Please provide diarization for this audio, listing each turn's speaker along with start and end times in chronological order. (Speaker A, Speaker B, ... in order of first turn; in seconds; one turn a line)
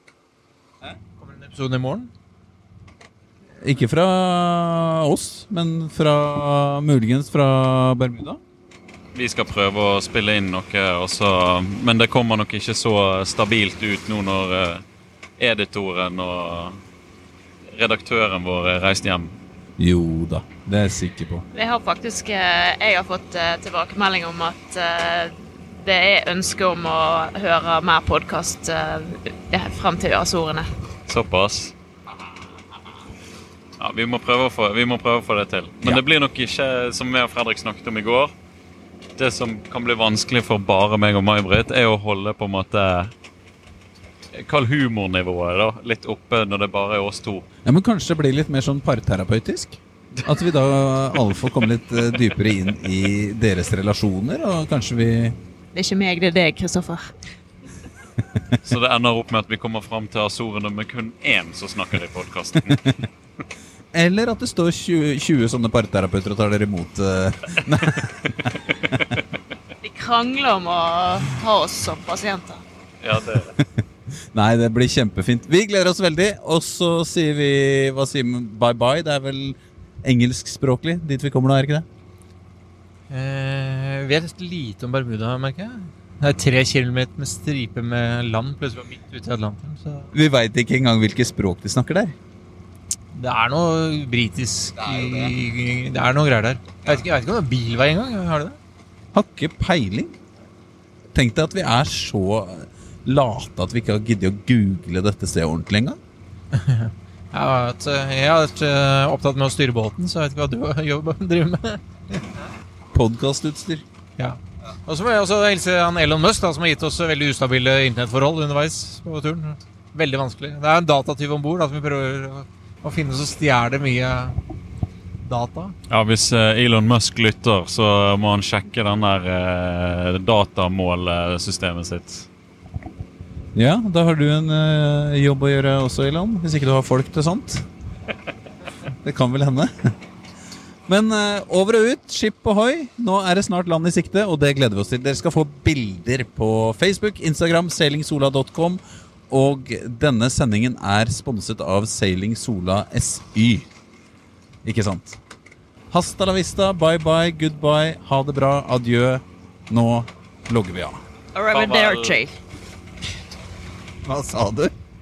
Speaker A: 0.9-2.1
Speaker B: 3.6-8.4
Speaker C: 9.1-14.8
Speaker C: 15.4-16.8
Speaker C: 17.7-19.4
Speaker B: 19.8-21.4
Speaker D: 21.5-30.7
Speaker C: 31.1-31.7
Speaker C: 33.8-38.3
Speaker C: 39.2-43.1
Speaker C: 44.3-47.5
Speaker B: 47.6-55.4
Speaker D: 55.7-57.0
Speaker C: 58.6-62.9
Speaker B: 63.9-69.0
Speaker D: 69.8-72.6
Speaker C: 73.0-73.5
Speaker B: 74.3-81.8
Speaker A: 83.1-90.1
Speaker B: 90.1-92.1
Speaker A: 93.1-98.6
Speaker B: 99.1-100.1
Speaker B: 101.1-106.0
Speaker A: 106.5-112.2
Speaker B: 112.9-113.8
Speaker A: 114.2-124.4
Speaker A: 125.2-125.7
Speaker C: 125.9-132.3
Speaker B: 133.5-137.7
Speaker B: 139.0-139.7
Speaker B: 140.9-153.7
Speaker B: 154.6-155.2
Speaker B: 155.9-161.0
Speaker D: 161.3-162.3
Speaker C: 161.5-162.2
Speaker B: 164.0-164.7